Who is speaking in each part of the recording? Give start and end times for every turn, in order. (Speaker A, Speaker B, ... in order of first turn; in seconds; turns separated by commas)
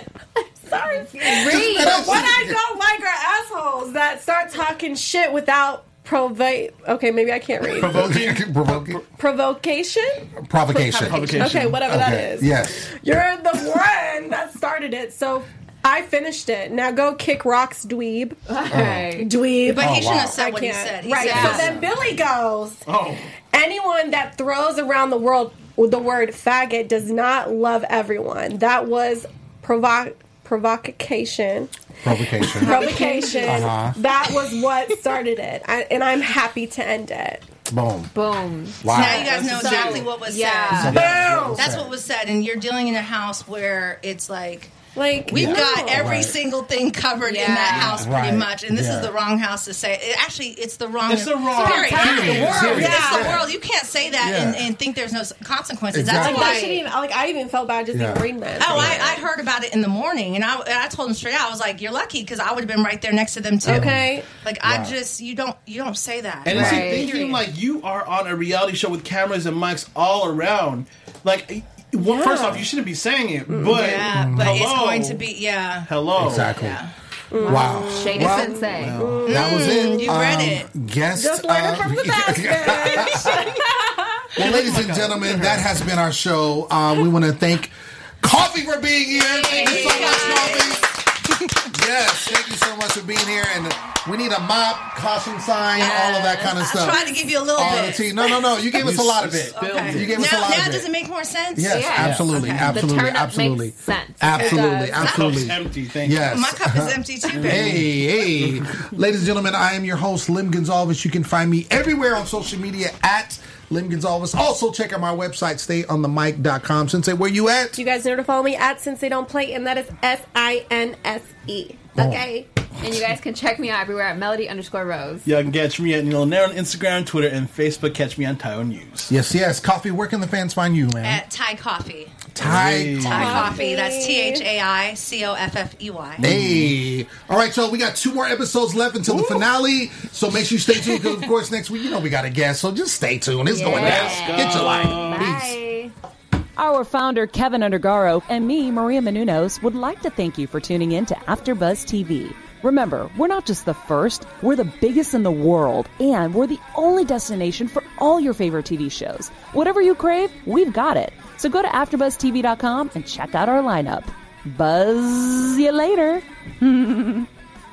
Speaker A: 0.6-8.1, Speaker B: 1.1-2.3, Speaker C: 1.4-2.6, Speaker D: 7.8-9.0, Speaker C: 7.8-9.0, Speaker A: 9.1-10.3, Speaker C: 10.4-12.9, Speaker B: 10.7-11.5, Speaker D: 11.0-11.9, Speaker A: 11.4-22.9, Speaker B: 18.5-19.3, Speaker C: 18.7-19.1, Speaker E: 19.6-21.8, Speaker C: 19.8-20.4, Speaker B: 21.1-21.8, Speaker C: 21.3-21.7, Speaker D: 22.9-23.3, Speaker A: 23.5-37.5, Speaker C: 32.0-32.8, Speaker B: 32.5-33.8, Speaker C: 33.4-34.0, Speaker C: 37.7-38.1, Speaker B: 38.1-41.0, Speaker C: 38.8-39.4, Speaker E: 38.9-44.7, Speaker D: 38.9-40.1, Speaker C: 40.8-41.9, Speaker D: 40.9-41.6, Speaker A: 40.9-41.7, Speaker A: 45.0-46.2, Speaker E: 45.3-56.8, Speaker C: 45.3-46.4, Speaker B: 47.2-48.1, Speaker C: 47.9-49.1, Speaker D: 51.1-53.4, Speaker B: 51.6-52.8, Speaker C: 51.9-53.5, Speaker A: 52.6-53.5, Speaker C: 54.2-54.7, Speaker C: 55.9-56.6, Speaker A: 56.1-59.2, Speaker B: 56.2-56.8, Speaker C: 57.9-59.0, Speaker E: 58.6-67.4, Speaker A: 63.6-64.3, Speaker C: 63.7-64.1, Speaker C: 64.6-65.0, Speaker D: 66.4-75.2, Speaker B: 66.5-67.3, Speaker A: 72.0-72.7, Speaker A: 73.5-74.0, Speaker E: 73.7-76.9, Speaker C: 74.1-74.5, Speaker D: 75.9-76.5, Speaker C: 76.2-76.8, Speaker A: 77.3-80.1, Speaker C: 77.4-78.7, Speaker B: 77.4-79.2, Speaker D: 78.8-79.3, Speaker E: 79.2-80.7, Speaker C: 79.3-83.4, Speaker A: 81.2-84.3, Speaker C: 84.4-90.9, Speaker D: 84.4-85.6, Speaker B: 89.2-90.8, Speaker E: 89.4-90.9, Speaker C: 91.7-100.9, Speaker E: 95.8-98.6, Speaker D: 98.8-100.4, Speaker E: 99.5-102.8, Speaker C: 101.5-117.8, Speaker B: 101.7-105.1, Speaker D: 102.0-102.8, Speaker E: 104.3-105.4, Speaker D: 105.0-106.3, Speaker E: 106.2-107.8, Speaker D: 107.3-107.9, Speaker D: 108.4-108.7, Speaker A: 117.8-122.5, Speaker C: 122.0-122.3, Speaker B: 122.8-125.3, Speaker D: 125.2-129.1, Speaker C: 129.1-131.2, Speaker E: 131.0-132.2, Speaker C: 132.3-133.5, Speaker D: 132.4-133.5, Speaker E: 133.0-136.3, Speaker A: 133.1-134.4, Speaker D: 136.2-136.7, Speaker C: 136.2-145.6, Speaker D: 139.1-139.4, Speaker B: 143.5-145.9, Speaker D: 143.7-145.3, Speaker F: 146.6-167.2